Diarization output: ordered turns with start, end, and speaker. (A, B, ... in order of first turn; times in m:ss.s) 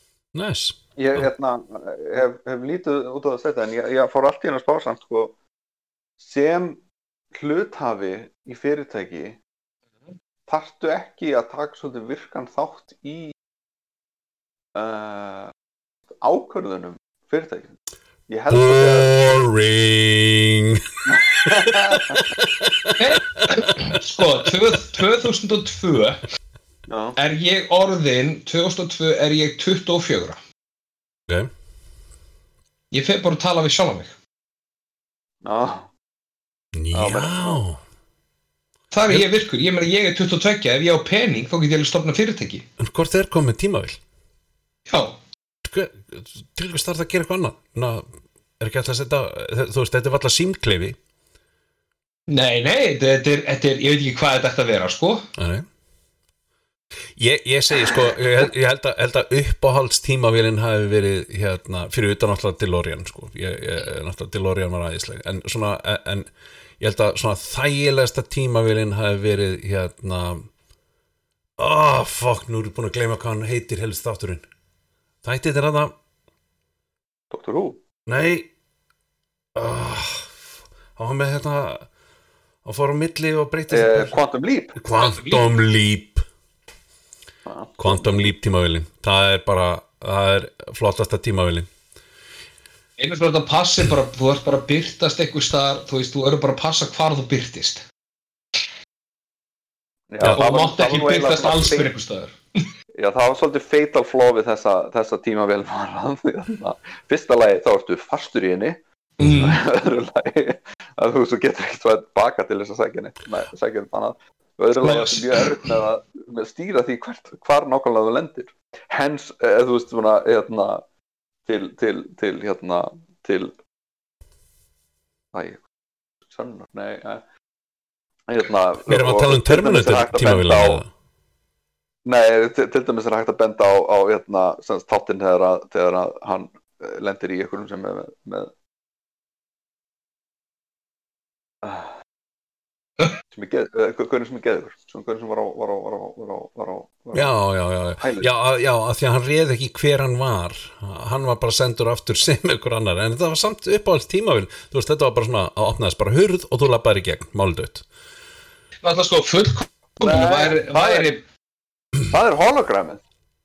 0:00.3-0:01.3 A
0:01.0-0:05.3 B
0:06.2-0:06.8 B
0:07.3-0:09.4 B
0:10.5-0:13.3 B
0:14.7-0:15.5 B
0:16.2-0:17.7 B
0:18.3-0:19.4 B
0:18.5-0:24.0 A
0:21.0-0:22.2 B
0:23.0-0:26.2 C
0:26.9-0:27.2 B
0:27.2-0:30.4 C
0:32.9-0:34.1 C
0:35.4-0:35.9 B
0:36.7-0:37.8 A
0:36.9-0:37.6 B
0:38.9-0:42.6 C
0:42.8-0:44.0 A
0:44.9-0:45.2 C
0:45.6-0:48.0 A
0:48.6-0:51.0 A
0:52.3-0:55.3 C
0:55.4-0:55.6 A
0:57.2-1:10.4 A
1:11.6-1:14.4 A
1:15.2-1:15.9 A
1:17.3-1:17.8 B
1:18.1-1:18.5 A
1:19.5-1:20.4 A
1:21.0-1:21.9 A
1:22.6-1:24.2 A
1:23.7-1:24.8 B
1:24.8-1:26.2 A
1:24.9-1:25.5 C
1:27.4-1:28.2 B
1:27.8-1:31.7 A
1:33.0-1:37.8 C
1:40.1-1:41.9 B
1:40.2-1:40.5 A
1:40.3-1:42.6 C
1:42.9-2:00.8 B
1:49.2-1:49.6 C
1:54.8-1:55.7 C
2:01.4-2:03.5 B
2:05.3-2:05.6 B
2:06.3-2:07.2 B
2:08.3-2:10.8 B
2:08.9-2:10.9 A
2:12.0-2:18.5 B
2:21.6-2:21.9 B
2:23.3-2:27.4 B
2:27.1-2:37.8 A
2:28.0-2:28.3 B
2:38.8-2:41.2 C
2:40.0-2:41.1 B
2:42.1-2:43.0 B